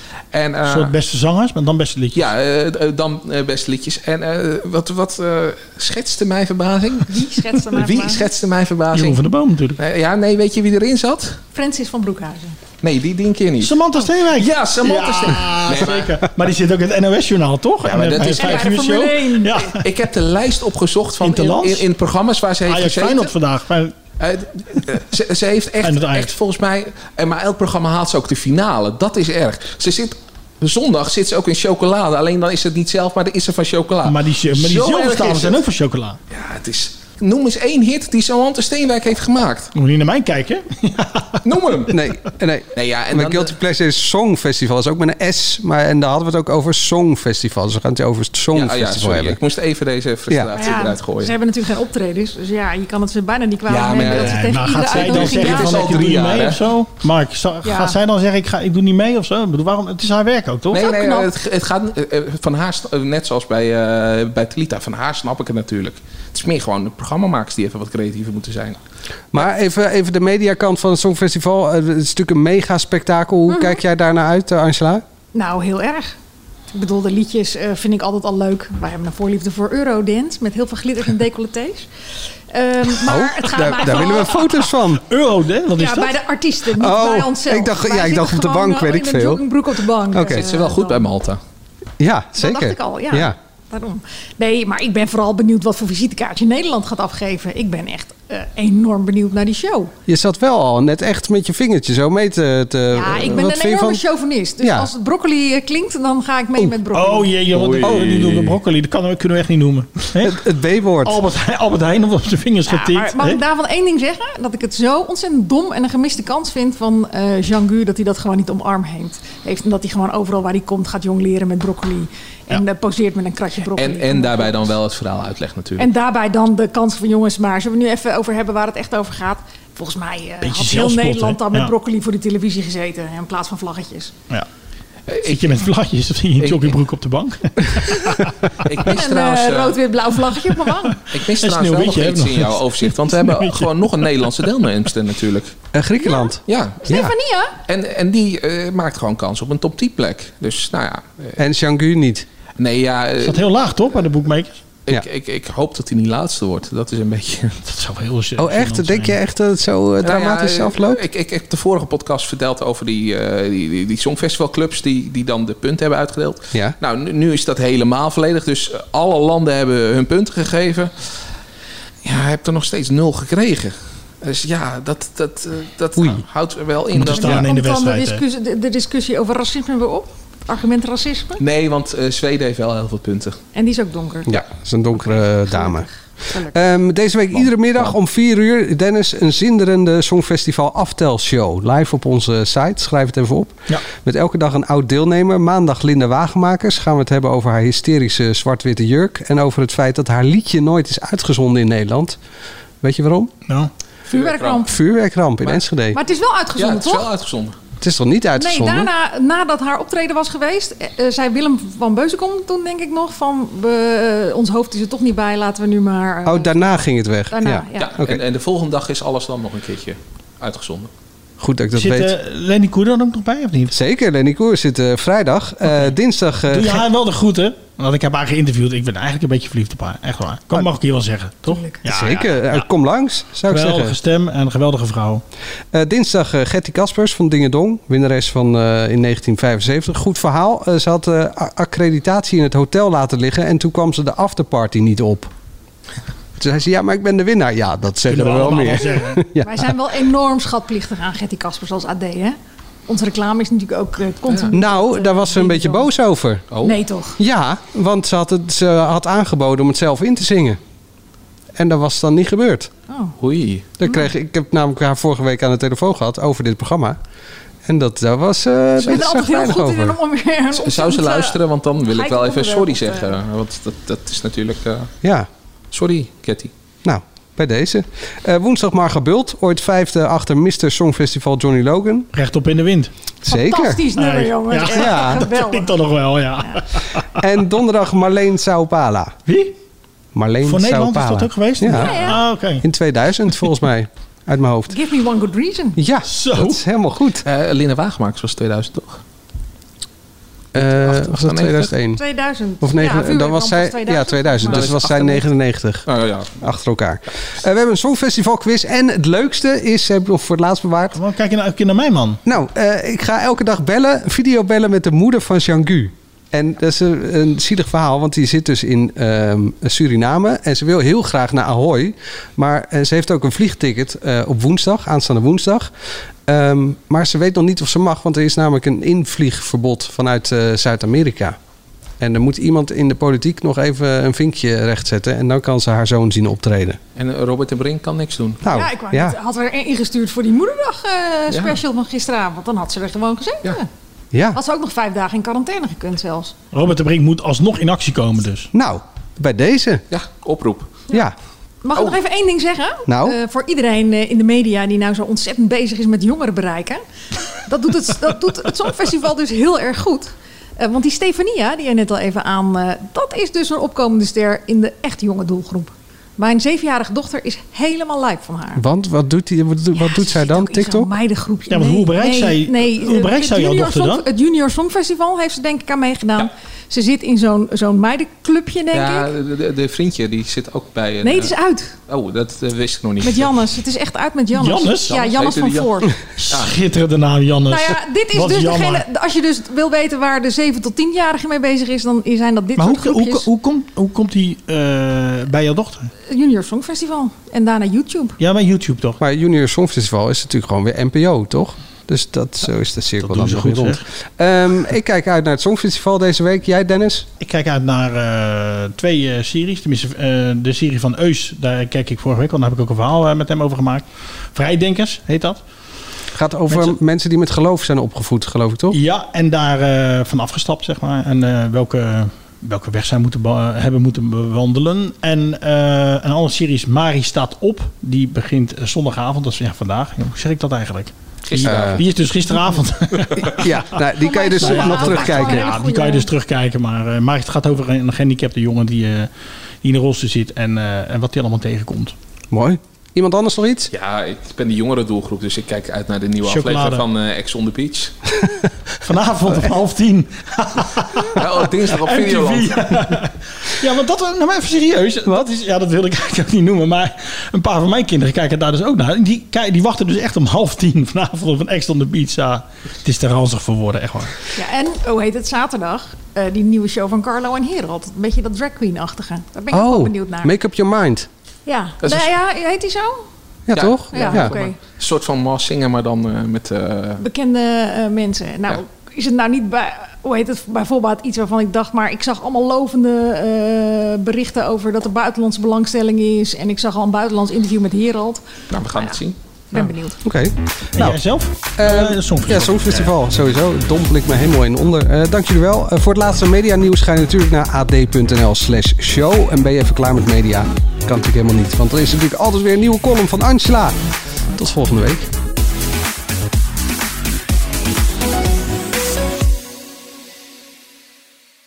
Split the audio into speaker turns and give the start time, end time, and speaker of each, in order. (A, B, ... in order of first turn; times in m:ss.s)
0:00.3-0:00.9 A
0:00.6-0:02.3 B
0:02.1-0:07.1 A
0:07.1-0:08.2 C
0:07.7-0:09.2 A
0:08.9-0:09.8 B
0:09.8-0:11.4 A
0:11.5-0:12.6 C
0:12.8-0:13.8 A
0:13.6-0:19.8 B
0:14.3-0:16.1 A
0:17.8-0:18.8 A
0:18.2-0:19.6 C
0:19.7-0:23.3 A
0:21.2-0:21.8 B
0:22.6-0:23.9 B
0:24.2-0:35.6 A
0:25.8-0:26.3 B
0:34.0-0:36.2 B
0:36.3-0:39.7 A
0:39.7-0:41.4 B
0:41.4-0:42.0 A
0:41.9-0:49.4 D
0:42.7-0:43.6 A
0:48.5-0:51.3 A
0:50.5-0:56.1 C
0:53.7-0:56.6 A
0:54.0-1:00.8 B
0:57.6-0:58.0 C
1:00.7-1:08.8 A
1:00.7-1:01.3 C
1:09.3-1:15.0 D
1:13.5-1:13.8 C
1:15.3-1:16.2 C
1:16.7-1:21.9 C
1:22.5-1:24.7 C
1:23.0-1:25.0 D
1:25.0-1:26.2 B
1:25.7-1:31.1 C
1:26.7-1:29.4 D
1:30.1-1:30.4 D
1:30.3-1:31.4 A
1:32.0-1:33.3 D
1:32.4-1:39.9 C
1:40.1-1:44.0 D
1:42.9-1:47.4 C
1:44.6-1:44.9 D
1:46.9-1:50.4 B
1:47.5-1:48.4 A
1:50.2-1:51.2 D
1:51.0-1:53.4 B
1:52.7-2:04.7 C
2:03.8-2:05.9 A
2:05.8-2:14.1 C
2:10.4-2:11.7 B
2:15.1-2:15.6 A
2:15.2-2:18.8 B
2:16.4-2:16.8 A
2:18.6-2:19.8 A
2:18.8-2:21.0 C
2:20.6-2:24.4 B
2:21.1-2:25.5 A
2:25.7-2:27.1 D
2:26.0-2:27.5 C
2:26.5-2:26.9 A
2:27.7-2:31.4 A
2:31.4-2:32.2 D
2:32.6-2:33.5 A
2:33.2-2:34.6 B
2:34.9-2:37.6 A
2:37.6-2:39.2 B
2:38.4-2:41.0 D
2:40.0-2:51.2 A
2:52.0-2:57.4 A
2:56.0-2:56.2 D
2:56.9-2:58.2 B
2:57.1-3:01.4 C
3:01.4-3:03.4 A
3:03.5-3:04.3 C
3:04.3-3:05.9 D
3:05.5-3:06.7 C
3:06.5-3:22.2 D
3:22.8-3:23.3 D
3:24.1-3:24.6 A
3:24.1-3:24.8 C
3:24.6-3:26.0 D
3:25.9-3:27.1 C
3:26.6-3:27.6 A
3:27.8-3:28.9 D
3:28.4-3:36.8 C
3:36.3-3:38.2 D
3:37.3-3:37.9 C
3:37.8-3:40.9 A
3:41.4-3:42.1 D
3:41.7-3:43.7 B
3:43.7-3:46.8 D
3:45.6-3:45.9 B
3:46.5-3:52.7 B
3:51.5-3:51.8 C
3:51.9-3:54.0 D
3:53.5-3:55.2 B
3:55.7-4:05.3 D
4:06.4-4:09.7 D
4:08.0-4:09.2 B
4:09.4-4:15.9 C
4:14.5-4:16.4 D
4:16.5-4:16.8 A
4:16.6-4:17.2 C
4:17.2-4:20.6 D
4:21.6-4:22.7 D
4:22.9-4:23.1 C
4:23.2-4:23.7 A
4:23.8-4:27.0 D
4:23.8-4:24.1 C
4:27.6-4:30.0 D
4:28.8-4:29.5 A
4:28.8-4:33.2 C
4:30.6-4:34.9 A
4:35.7-4:36.5 A
4:36.8-4:42.1 D
4:42.1-4:42.9 B
4:43.2-4:43.8 D
4:43.3-4:45.8 C
4:43.9-4:47.2 B
4:44.7-4:45.2 D
4:47.2-4:49.2 D
4:49.3-4:49.5 B
4:50.1-4:52.1 D
4:50.4-4:52.6 B
4:51.7-4:52.2 C
4:52.6-4:54.7 D
4:54.7-4:55.8 C
4:55.8-4:57.2 D
4:56.0-4:56.6 B
4:57.2-4:59.0 A
5:00.5-5:02.0 D
5:00.6-5:01.7 A
5:02.0-5:04.8 C
5:02.6-5:05.8 D
5:04.5-5:05.3 A
5:05.8-5:06.3 A
5:06.4-5:11.0 D
5:11.0-5:12.2 B
5:12.2-5:25.7 D
5:26.3-5:31.4 D
5:32.0-5:36.8 D
5:37.0-5:38.4 A
5:38.4-5:39.1 D
5:38.5-5:43.7 C
5:41.3-5:41.6 A
5:44.1-5:44.4 D
5:44.3-5:46.3 C
5:46.5-5:48.5 B
5:48.5-5:49.8 D
5:49.9-5:50.8 A
5:51.6-5:56.8 C
5:52.9-5:53.2 D
5:57.4-6:08.6 C
6:08.6-6:10.9 D
6:09.7-6:19.1 C
6:11.5-6:14.0 B
6:18.7-6:21.3 A
6:21.0-6:21.7 C
6:21.9-6:23.5 A
6:23.0-6:25.9 C
6:24.3-6:24.9 B
6:24.9-6:26.5 A
6:26.2-6:28.8 B
6:27.5-6:33.3 C
6:32.6-6:35.9 B
6:36.1-6:38.2 C
6:38.2-6:39.0 B
6:39.0-6:47.1 D
6:43.0-6:43.8 B
6:47.2-6:55.4 B
6:56.1-6:58.8 D
6:56.5-6:56.8 B
6:58.7-7:13.6 B
7:11.2-7:11.8 A
7:11.4-7:11.8 D
7:13.4-7:15.6 D
7:14.0-7:16.1 C
7:14.4-7:19.1 B
7:19.6-7:21.9 B
7:22.3-7:23.7 D
7:23.7-7:27.9 A
7:26.2-7:26.8 B
7:28.8-7:44.1 B
7:31.1-7:32.7 A
7:44.3-7:50.3 C
7:49.5-7:51.1 D
7:51.4-7:53.0 C
7:51.8-7:52.1 A
7:53.5-7:54.3 D
7:53.5-7:57.0 A
7:53.9-7:54.6 C
7:57.0-8:09.0 C
8:08.5-8:09.7 A
8:09.5-8:10.0 C
8:10.0-8:11.0 D
8:10.7-8:12.9 B
8:11.6-8:23.8 D
8:24.3-8:25.1 D